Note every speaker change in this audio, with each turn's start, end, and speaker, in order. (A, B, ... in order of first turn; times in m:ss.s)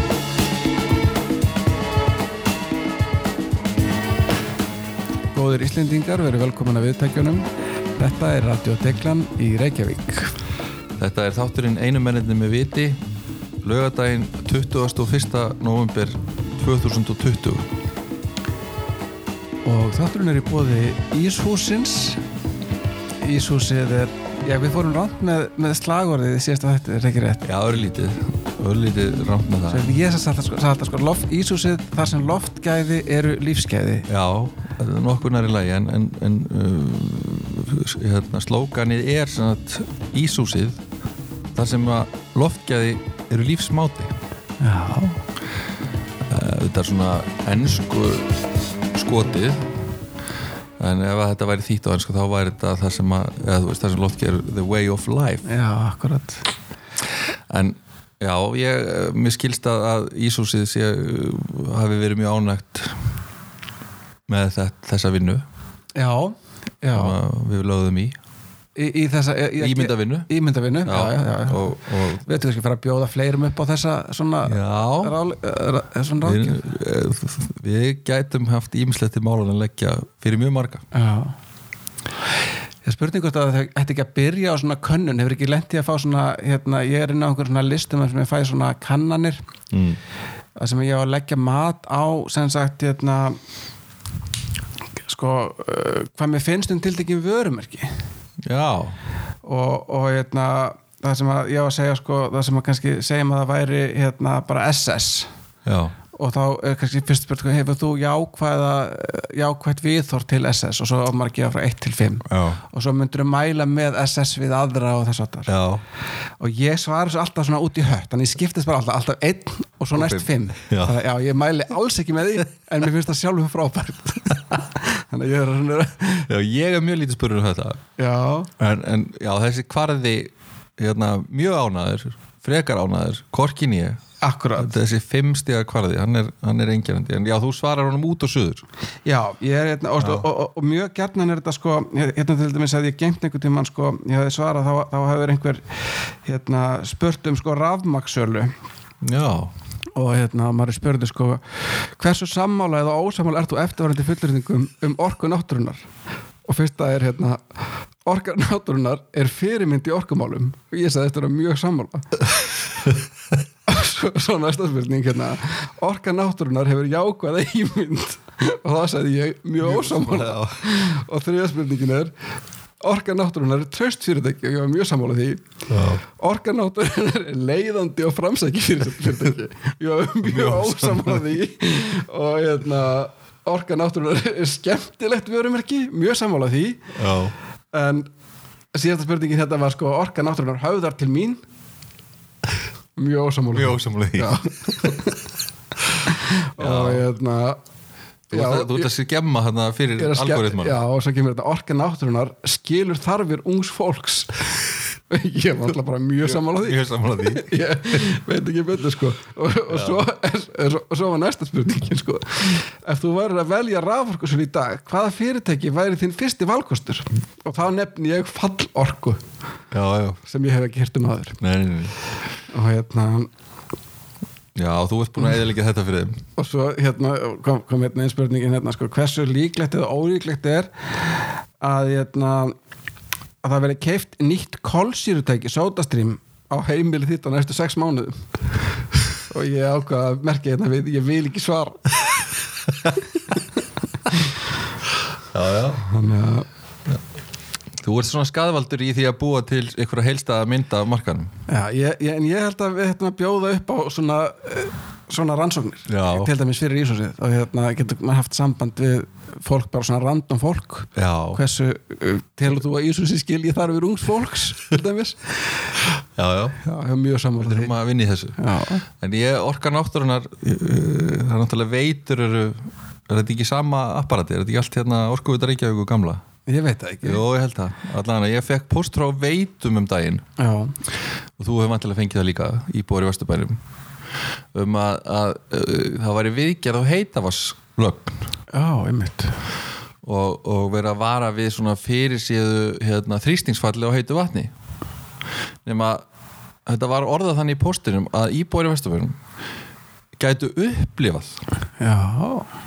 0:05.3-0:10.3 A
0:11.0-0:13.0 B
0:13.6-0:17.7 B
0:19.6-0:22.2 A
0:23.2-0:27.4 A
0:27.4-0:29.9 B
0:29.7-0:34.1 A
0:34.1-0:40.8 B
0:41.6-0:44.2 B
0:44.6-0:45.2 A
0:46.3-0:48.4 B
0:48.9-0:49.7 B
0:50.8-0:55.4 B
0:55.4-0:56.4 A
0:57.5-1:03.0 B
1:04.3-1:05.4 B
1:06.0-1:07.2 A
1:06.9-1:08.2 B
1:08.8-1:16.6 A
1:09.6-1:10.3 B
1:10.9-1:12.3 B
1:14.5-1:15.2 B
1:16.2-1:20.8 B
1:20.9-1:21.4 A
1:22.8-1:29.4 A
1:29.7-1:30.0 B
1:30.6-1:33.4 A
1:35.1-1:37.9 A
1:38.4-1:39.0 B
1:39.4-1:45.3 A
1:45.7-1:46.0 B
1:46.1-1:55.6 A
1:52.3-1:52.6 B
1:55.5-1:55.8 B
1:56.4-2:06.3 A
2:00.0-2:01.0 B
2:06.3-2:07.8 B
2:08.0-2:08.5 A
2:08.6-2:14.0 B
2:14.2-2:14.7 A
2:14.6-2:18.6 B
2:19.0-2:28.5 A
2:20.0-2:20.3 B
2:29.0-2:29.5 B
2:30.0-2:35.9 A
2:36.5-2:42.2 A
2:43.7-2:52.1 A
2:49.6-2:50.6 B
2:52.8-2:55.4 A
2:55.7-2:56.0 B
2:56.0-3:06.9 A
3:00.2-3:01.4 B
3:06.9-3:07.4 B
3:07.7-3:08.1 A
3:08.7-3:11.4 A
3:13.0-3:15.2 A
3:13.5-3:14.9 B
3:16.1-3:17.6 A
3:16.6-3:17.1 B
3:18.3-3:20.8 B
3:18.3-3:18.9 A
3:20.0-3:39.2 A
3:26.2-3:27.6 B
3:29.7-3:30.0 B
3:39.7-3:40.2 B
3:40.2-3:41.4 A
3:41.4-3:42.0 B
3:42.5-3:43.3 A
3:44.6-3:46.2 B
3:46.4-3:52.6 A
3:53.4-3:58.3 A
3:59.3-4:01.9 A
4:05.3-4:05.8 B
4:05.8-4:06.5 A
4:07.8-4:11.3 B
4:11.5-4:25.8 A
4:15.9-4:16.3 B
4:21.0-4:21.4 B
4:26.2-4:26.6 B
4:26.6-4:27.7 A
4:27.4-4:28.4 B
4:28.4-4:28.8 A
4:28.9-4:36.2 B
4:36.5-4:37.2 A
4:37.0-4:40.2 B
4:40.4-4:40.8 A
4:41.4-4:43.6 B
4:44.5-4:48.2 B
4:48.5-4:49.4 A
4:50.0-4:54.5 B
4:55.7-4:56.0 B
4:56.7-4:59.2 B
5:00.2-5:01.4 B
5:01.8-5:02.5 A